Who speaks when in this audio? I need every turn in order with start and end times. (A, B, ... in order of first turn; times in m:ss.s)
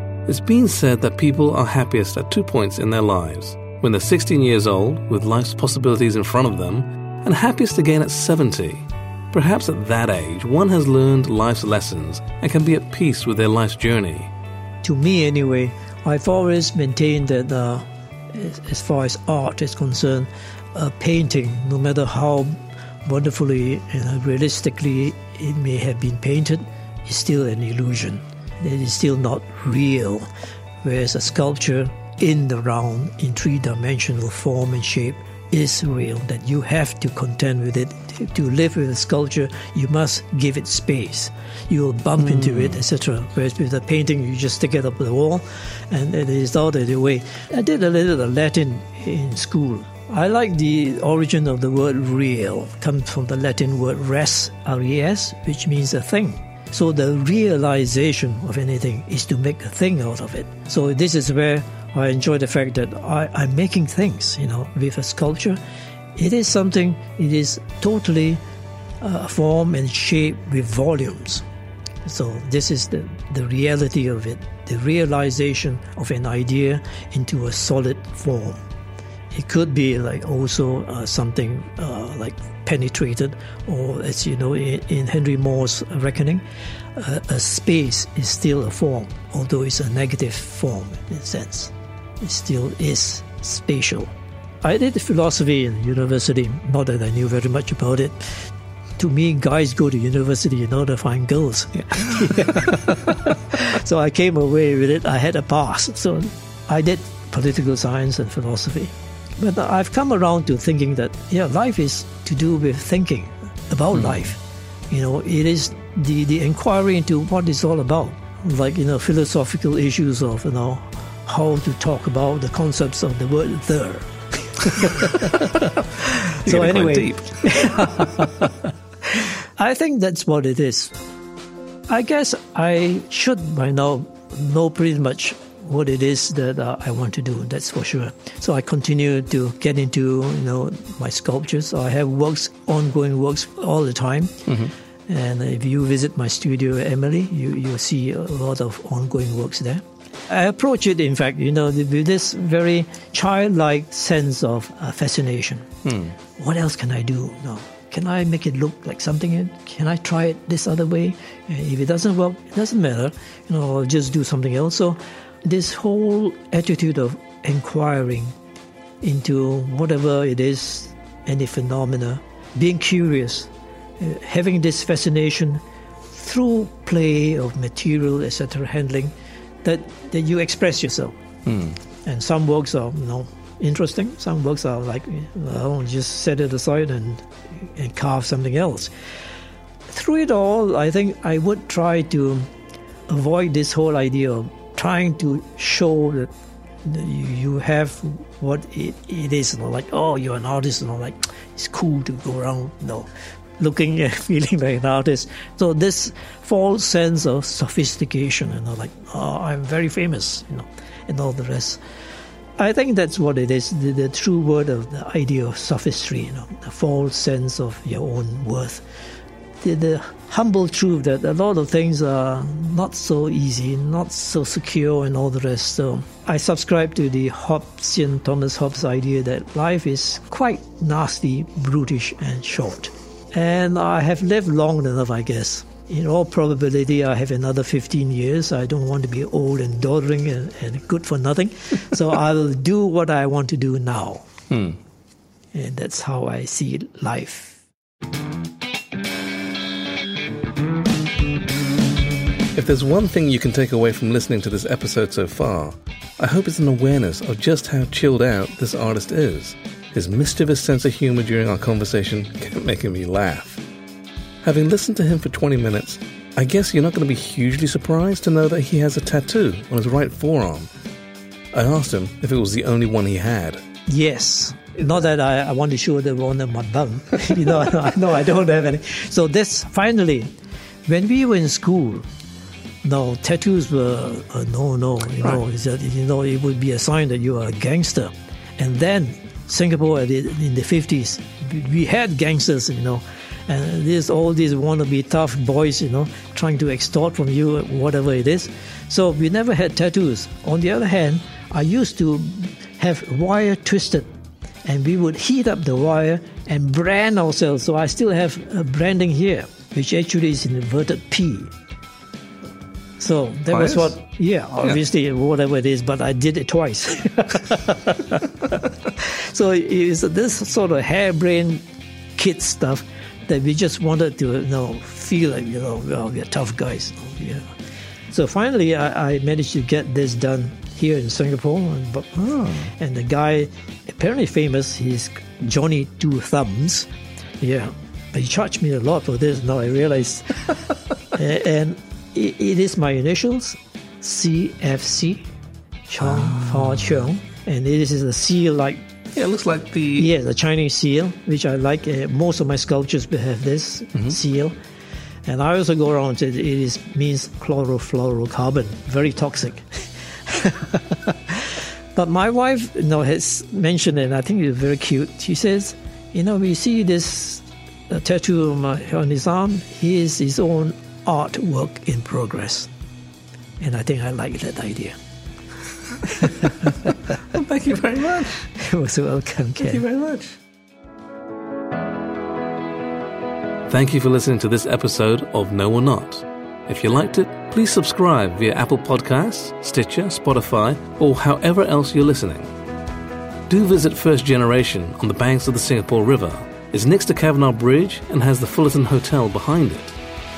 0:00.3-0:14.3 A
0:14.8-0:30.3 B
0:30.8-1:05.6 B
0:42.2-0:42.7 A
1:06.2-1:08.4 B
1:09.0-1:11.4 B
1:12.0-1:18.6 B
1:19.3-1:26.4 B
1:27.0-2:11.0 B
2:06.4-2:08.2 A
2:11.9-2:24.5 B
2:25.1-2:35.8 B
2:35.8-2:36.2 A
2:36.4-2:48.4 B
2:49.0-3:01.2 B
3:01.5-3:01.8 A
3:02.0-3:08.9 B
3:09.9-3:12.5 B
3:13.1-3:16.3 B
3:16.8-3:31.8 B
3:32.6-3:38.8 B
3:39.6-4:04.3 B
4:04.5-4:04.8 A
4:05.5-4:07.6 B
4:12.5-4:23.6 A
4:24.4-4:30.7 A
4:31.5-4:33.6 A
4:33.9-4:40.3 B
4:40.9-4:42.0 B
4:42.8-5:04.1 B
5:04.6-5:11.5 B
5:13.0-5:21.6 B
5:13.5-5:13.9 A
5:22.2-5:27.5 B
5:28.1-5:36.9 B
5:32.2-5:32.7 A
5:37.4-5:40.6 B
5:41.1-5:45.3 B
5:45.9-5:48.9 B
5:46.0-5:47.0 A
5:49.2-5:50.1 A
5:50.0-5:54.6 B
5:55.3-6:12.7 B
6:13.6-6:15.0 B
6:16.0-6:17.1 B
6:16.2-6:16.7 A
6:17.2-6:18.5 A
6:18.6-6:19.8 B
6:19.6-6:20.4 A
6:23.7-6:32.5 A
6:33.5-6:40.0 A